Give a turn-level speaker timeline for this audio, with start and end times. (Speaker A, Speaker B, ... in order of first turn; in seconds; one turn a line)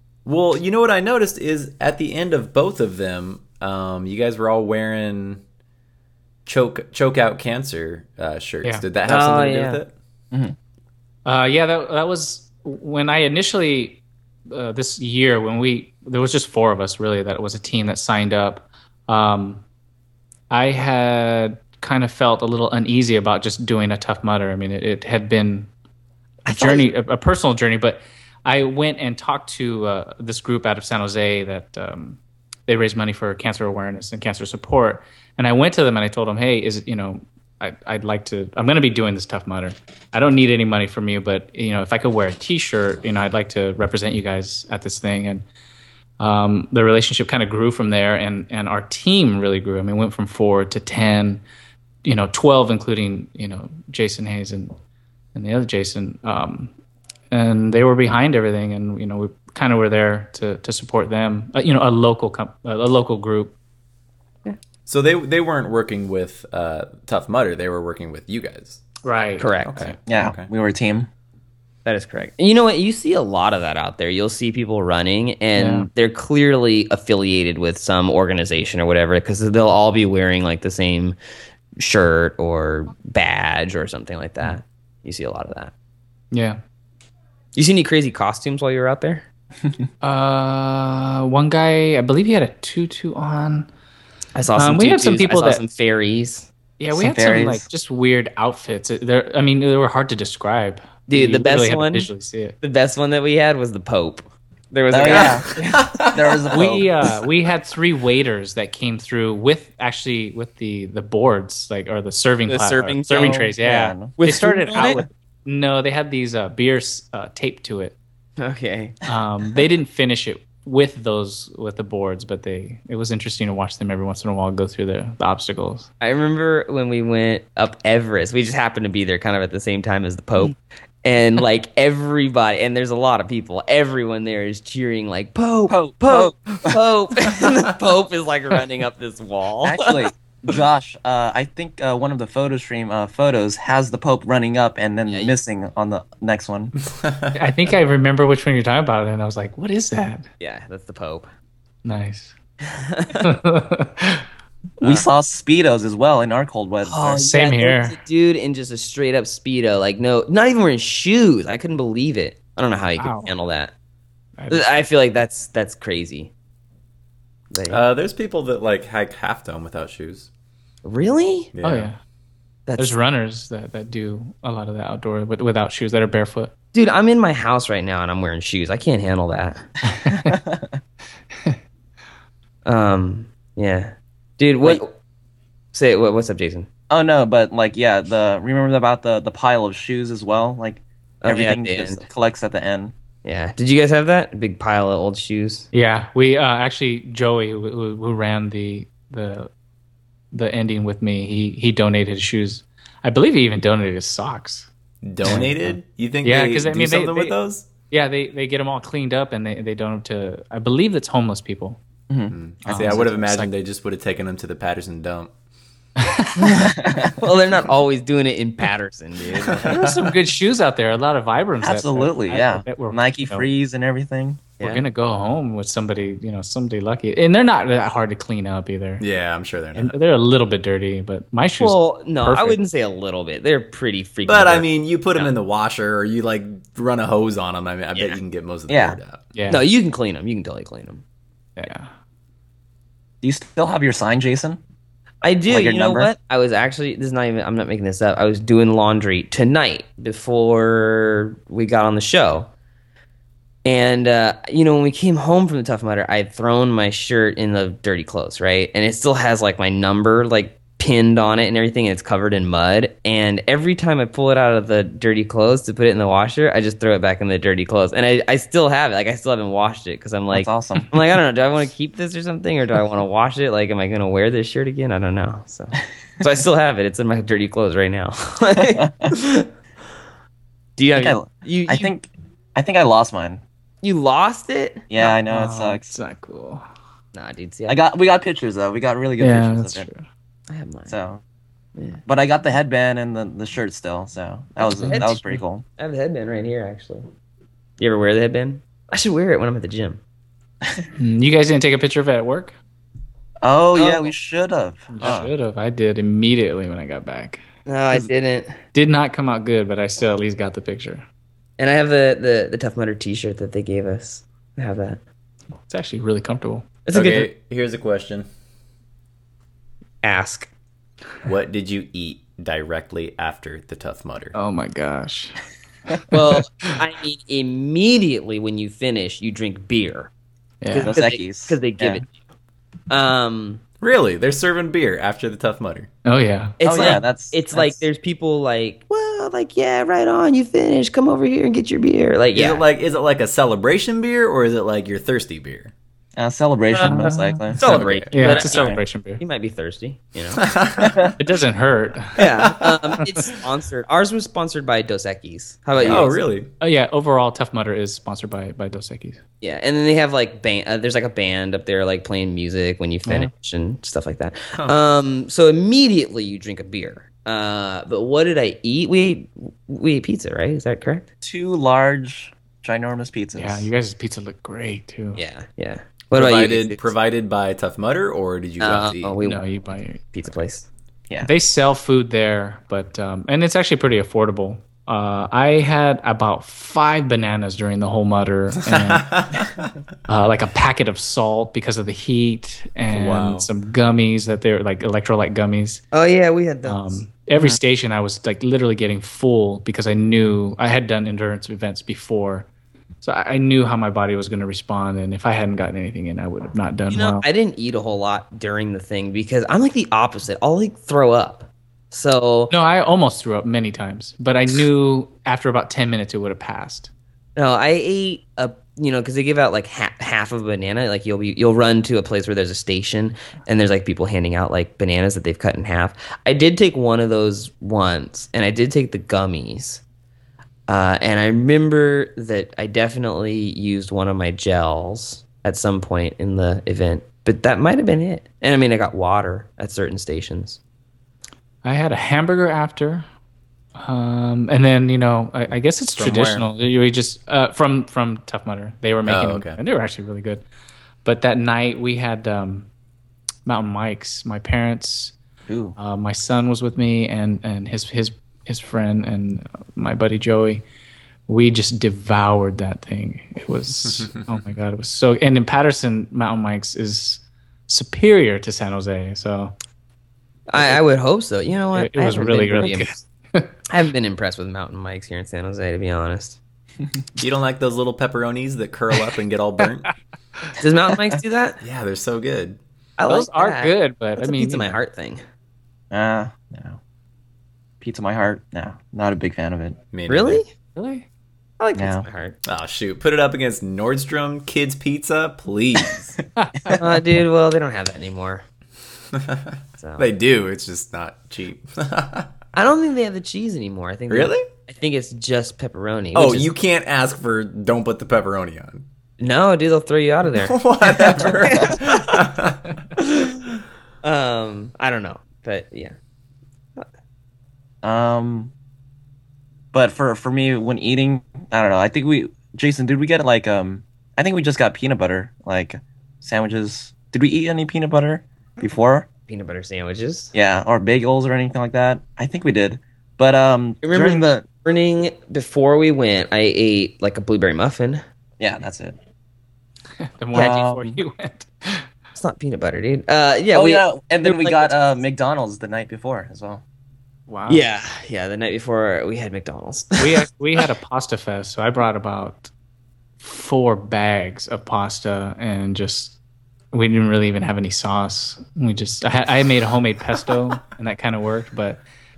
Speaker A: 0.2-5.4
Speaker A: 6.5-9.9
Speaker B: 9.0-9.8
Speaker C: 11.2-19.6
Speaker C: 20.5-25.7
Speaker B: 26.4-26.9
Speaker C: 26.5-45.5
Speaker C: 46.2-51.4
Speaker C: 52.0-54.7
Speaker C: 55.3-56.7
Speaker C: 57.3-63.5
Speaker A: 64.8-68.8
Speaker C: 69.0-69.9
Speaker B: 69.4-69.9
Speaker A: 69.7-70.5
Speaker D: 70.1-71.1
Speaker B: 71.8-81.2
Speaker C: 75.6-75.9
Speaker B: 81.8-85.7
Speaker C: 86.3-86.6
Speaker B: 87.5-89.2
Speaker C: 90.0-93.7
Speaker B: 94.3-96.5
Speaker C: 94.5-95.6
Speaker C: 96.8-102.5
Speaker D: 97.0-97.7
Speaker B: 101.1-106.1
Speaker D: 104.9-107.1
Speaker A: 105.6-106.4
Speaker C: 106.5-118.0
Speaker B: 112.5-113.5
Speaker D: 113.1-114.2
Speaker B: 114.2-115.0
Speaker D: 114.7-115.0
Speaker B: 118.4-119.0
Speaker C: 119.1-125.9
Speaker B: 126.0-140.1
Speaker D: 135.7-136.8
Speaker D: 139.6-146.7
Speaker B: 145.1-145.3
Speaker A: 147.0-147.4
Speaker C: 147.3-150.3
Speaker B: 150.4-151.3
Speaker C: 151.8-152.3
Speaker B: 152.7-153.3
Speaker C: 153.2-154.3
Speaker C: 154.8-155.1
Speaker D: 154.8-157.3
Speaker B: 156.8-163.7
Speaker C: 157.2-158.0
Speaker C: 163.0-163.3
Speaker C: 164.4-164.7
Speaker B: 164.5-166.3
Speaker B: 167.5-167.8
Speaker A: 167.7-170.3
Speaker B: 170.8-171.5
Speaker A: 171.5-171.9
Speaker C: 171.6-172.0
Speaker B: 172.7-172.9
Speaker C: 172.8-176.5
Speaker B: 176.7-179.6
Speaker C: 179.8-180.3
Speaker D: 180.1-180.7
Speaker C: 181.3-181.6
Speaker B: 182.6-184.9
Speaker B: 185.7-186.7
Speaker D: 186.9-192.9
Speaker B: 191.2-192.0
Speaker B: 193.2-195.7
Speaker C: 195.7-199.5
Speaker C: 200.3-204.7
Speaker A: 205.0-207.7
Speaker C: 205.2-205.7
Speaker C: 206.2-207.3
Speaker C: 207.9-211.8
Speaker A: 212.3-215.3
Speaker C: 212.6-213.5
Speaker C: 216.0-216.7
Speaker B: 216.4-219.8
Speaker D: 216.6-217.2
Speaker A: 219.2-220.1
Speaker C: 219.6-223.5
Speaker D: 221.6-224.5
Speaker B: 224.6-224.8
Speaker C: 224.6-229.0
Speaker A: 229.0-229.9
Speaker C: 229.7-232.6
Speaker B: 231.6-235.3
Speaker A: 234.2-239.2
Speaker D: 238.7-239.0
Speaker C: 239.3-239.6
Speaker B: 239.5-241.0
Speaker C: 241.6-241.9
Speaker D: 243.2-244.6
Speaker B: 245.2-252.5
Speaker D: 245.5-246.1
Speaker B: 253.6-279.5
Speaker D: 270.3-271.0
Speaker D: 278.5-279.1
Speaker B: 280.8-281.9
Speaker D: 280.9-283.4
Speaker B: 283.8-284.8
Speaker D: 284.9-285.8
Speaker C: 285.0-286.6
Speaker B: 287.1-287.8
Speaker D: 287.7-289.9
Speaker C: 289.2-290.1
Speaker B: 290.5-290.9
Speaker D: 290.9-291.2
Speaker B: 291.8-292.0
Speaker D: 292.1-295.6
Speaker C: 294.6-295.4
Speaker B: 294.7-295.2
Speaker B: 295.8-297.1
Speaker B: 297.8-300.0
Speaker C: 301.0-302.5
Speaker D: 303.4-305.3
Speaker B: 303.7-304.1
Speaker C: 304.9-307.4
Speaker B: 307.7-308.6
Speaker C: 308.7-311.0
Speaker B: 311.6-315.0
Speaker C: 315.7-316.7
Speaker B: 316.8-317.3
Speaker A: 316.9-318.3
Speaker B: 320.0-320.5
Speaker A: 321.2-324.3
Speaker C: 324.3-325.4
Speaker C: 325.9-326.7
Speaker B: 326.1-330.1
Speaker C: 330.6-330.9
Speaker B: 330.7-332.1
Speaker D: 330.8-331.6
Speaker B: 332.9-333.6
Speaker A: 333.8-335.9
Speaker C: 336.0-337.0
Speaker B: 336.6-342.6
Speaker D: 336.6-337.8
Speaker A: 342.3-345.7
Speaker D: 346.2-347.8
Speaker B: 346.7-350.4
Speaker C: 346.8-347.4
Speaker A: 347.6-348.1
Speaker C: 348.1-349.2
Speaker D: 348.3-348.8
Speaker A: 350.4-351.1
Speaker D: 350.8-351.1
Speaker C: 351.2-352.2
Speaker B: 352.2-356.2
Speaker A: 352.4-353.1
Speaker D: 355.8-356.0
Speaker A: 355.8-356.5
Speaker C: 356.6-359.2
Speaker B: 359.4-371.1
Speaker D: 371.2-373.7
Speaker C: 373.4-375.2
Speaker B: 375.1-376.9
Speaker A: 376.1-379.1
Speaker B: 378.6-379.5
Speaker C: 379.2-380.1
Speaker B: 380.1-380.6
Speaker C: 381.2-389.1
Speaker A: 388.7-389.7
Speaker C: 390.1-395.8
Speaker A: 392.9-393.5
Speaker B: 395.9-397.0
Speaker C: 396.6-402.5
Speaker D: 397.3-397.6
Speaker C: 403.0-407.2
Speaker B: 406.9-412.5
Speaker C: 412.5-416.9
Speaker B: 417.4-429.8
Speaker B: 430.7-440.6
Speaker C: 441.6-443.1
Speaker C: 443.8-450.4
Speaker A: 445.9-446.4
Speaker A: 449.1-449.6
Speaker C: 451.0-452.7
Speaker C: 453.4-455.1
Speaker D: 455.5-455.8
Speaker C: 455.8-460.6
Speaker C: 461.3-469.5
Speaker B: 470.5-472.9
Speaker C: 471.7-473.5
Speaker B: 473.7-476.4
Speaker A: 477.2-479.9
Speaker B: 480.6-481.6
Speaker A: 481.6-482.6
Speaker B: 483.0-485.2
Speaker C: 483.1-484.8
Speaker D: 485.9-486.8
Speaker D: 487.8-489.8
Speaker A: 489.9-490.4
Speaker B: 490.1-490.5
Speaker C: 490.7-491.1
Speaker B: 491.6-492.4
Speaker D: 491.7-492.0
Speaker A: 492.4-496.2
Speaker C: 496.4-496.8
Speaker B: 496.7-498.4
Speaker A: 499.1-502.3
Speaker B: 499.8-500.1
Speaker B: 502.5-506.5
Speaker A: 504.1-504.5
Speaker A: 506.1-508.8
Speaker B: 509.2-511.9
Speaker A: 510.4-512.7
Speaker B: 513.0-513.5
Speaker B: 514.0-515.9
Speaker D: 517.8-518.5
Speaker D: 519.7-529.1
Speaker B: 529.3-530.3
Speaker D: 530.3-534.4
Speaker B: 533.8-538.0
Speaker D: 538.4-539.0
Speaker C: 540.2-541.9
Speaker B: 540.3-540.6
Speaker D: 540.3-541.0
Speaker B: 542.1-544.8
Speaker D: 543.5-546.6
Speaker C: 547.3-547.6
Speaker B: 547.5-550.6
Speaker C: 550.0-552.5
Speaker C: 553.2-556.1
Speaker C: 556.7-561.8